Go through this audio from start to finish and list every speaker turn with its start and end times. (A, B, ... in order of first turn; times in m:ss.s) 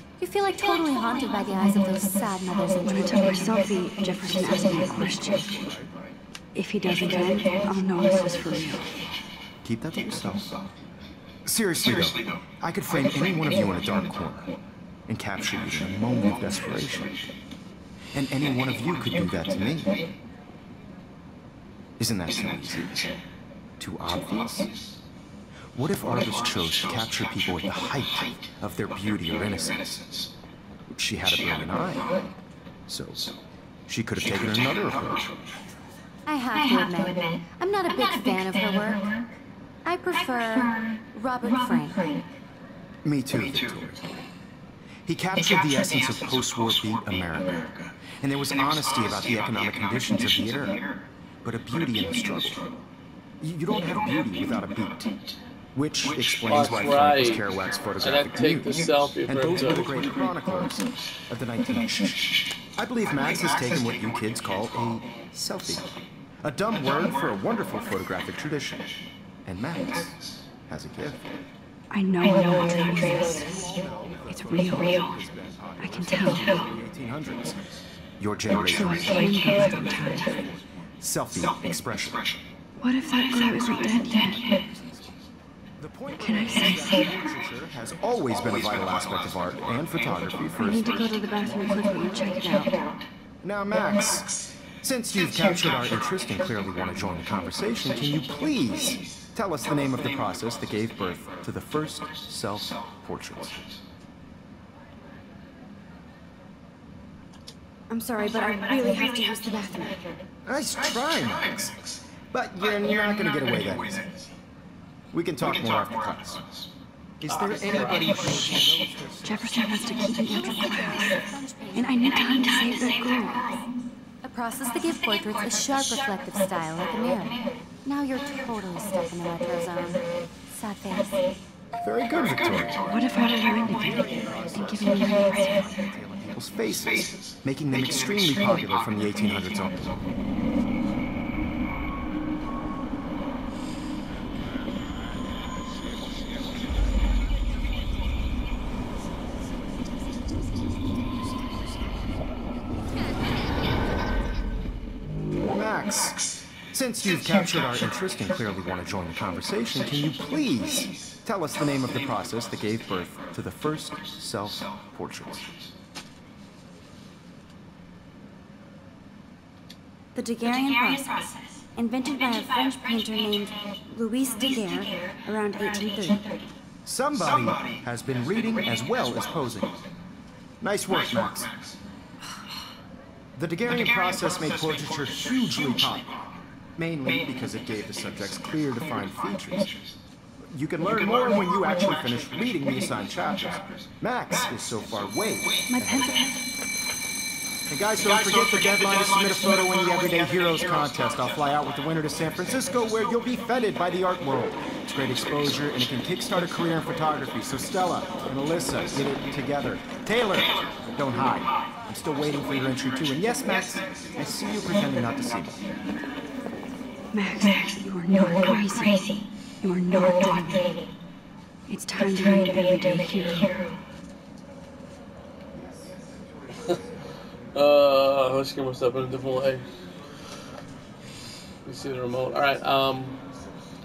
0:00.2-0:03.6 A
0:02.8-0:05.5 B
0:05.4-0:05.9 C
0:06.5-0:08.9 B
0:09.6-0:10.5 C
0:11.4-0:14.5 C
0:15.1-0:17.1 C
0:18.1-0:20.0 C
0:22.0-0:23.1 C
0:23.8-0:24.7 C
0:25.7-0:30.2 C
0:30.9-0:32.1 C
0:32.9-0:33.3 C
0:33.9-0:35.3 C
0:36.3-0:39.1 A
0:39.8-0:42.2 A
0:43.0-0:44.0 C
0:45.0-0:50.8 C
0:51.4-0:52.7 C
0:53.4-0:55.1 C
0:55.7-1:08.9 C
0:56.5-0:57.4 D
0:58.0-1:00.0 D
1:09.4-1:11.3 C
1:11.9-1:15.0 B
1:12.7-1:17.6 C
1:15.8-1:16.5 B
1:18.2-1:22.2 C
1:18.7-1:20.4 B
1:22.8-1:24.4 B
1:24.2-1:25.2 C
1:25.8-1:31.1 C
1:26.2-1:27.0 B
1:30.6-1:32.8 B
1:33.4-1:43.6 C
1:47.9-1:50.0 B
1:50.4-1:54.0 C
1:55.1-1:56.5 C
1:57.2-1:59.9 C
1:57.2-1:58.5 D
1:59.2-2:01.2 B
2:00.2-2:03.0 A
2:01.7-2:03.4 B
2:04.2-2:11.2 A
2:11.8-2:12.8 C
2:12.8-2:15.7 B
2:13.6-2:20.0 C
2:35.4-2:45.5 C
2:50.1-2:56.2 B
2:56.8-2:59.7 C
3:00.6-3:01.6 C
3:03.4-3:06.1 C
3:06.8-3:09.7 C
3:10.5-3:16.2 C
3:15.7-3:16.4 B
3:17.7-3:35.6 C
3:37.1-3:39.1 B
3:39.6-3:40.7 B
3:41.7-3:43.5 B
3:45.5-3:46.0 C
3:47.5-3:49.6 D
3:51.6-3:53.2 D